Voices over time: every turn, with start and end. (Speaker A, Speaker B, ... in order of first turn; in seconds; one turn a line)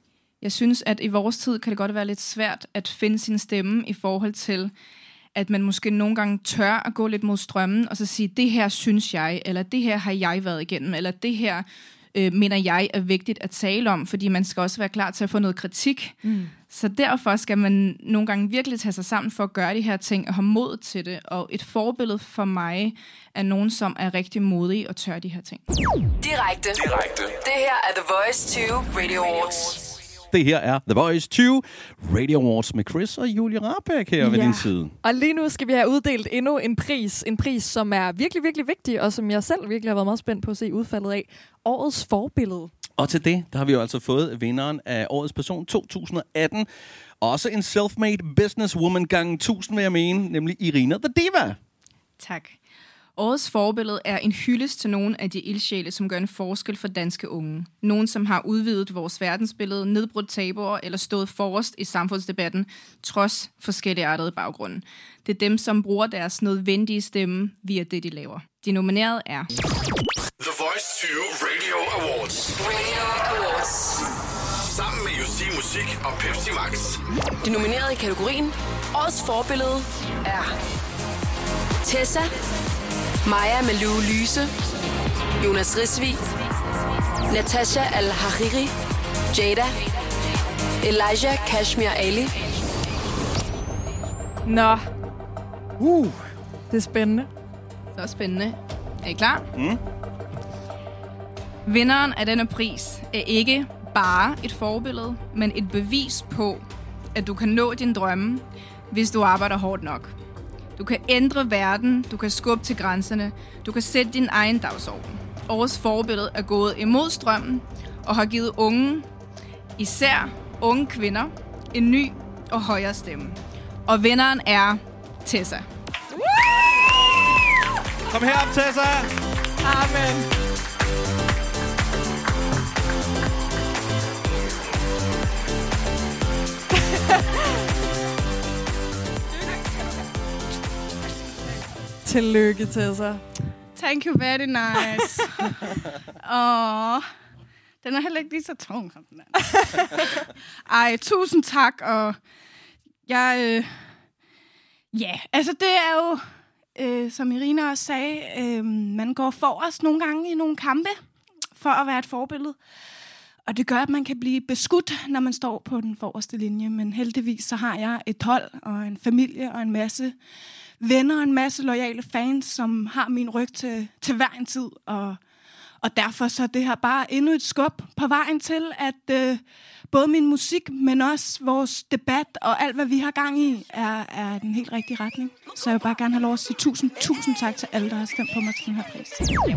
Speaker A: 0.4-4.7
Speaker A: 5.3-16.1
Speaker A: 16.7-25.6
Speaker B: 26.2-26.8
Speaker C: 26.8-27.3
Speaker B: 27.4-29.9
Speaker D: 30.3-34.9
Speaker E: 34.2-42.7
Speaker D: 43.0-46.7
Speaker D: 47.2-51.5
Speaker A: 52.2-52.6
Speaker A: 53.1-69.5
Speaker C: 70.4-72.5
Speaker B: 72.6-74.0
Speaker C: 74.6-77.0
Speaker B: 77.4-80.5
Speaker B: 81.8-82.3
Speaker B: 83.2-84.5
Speaker B: 85.4-86.2
Speaker B: 87.3-88.7
Speaker B: 89.3-89.7
Speaker B: 90.8-92.3
Speaker E: 94.5-94.8
Speaker D: 95.8-96.2
Speaker E: 96.7-97.3
Speaker A: 98.0-99.4
Speaker A: 101.7-110.1
Speaker A: 110.8-119.0
Speaker A: 119.8-125.7
Speaker D: 128.1-129.1
Speaker E: 129.6-130.3
Speaker E: 142.0-143.2
Speaker F: 143.8-145.6
Speaker F: 146.2-147.1
Speaker F: 147.8-152.2
Speaker F: 153.1-153.8
Speaker F: 154.9-161.0
Speaker F: 161.6-162.6
Speaker F: 163.5-170.1
Speaker F: 170.8-175.2
Speaker F: 175.8-189.2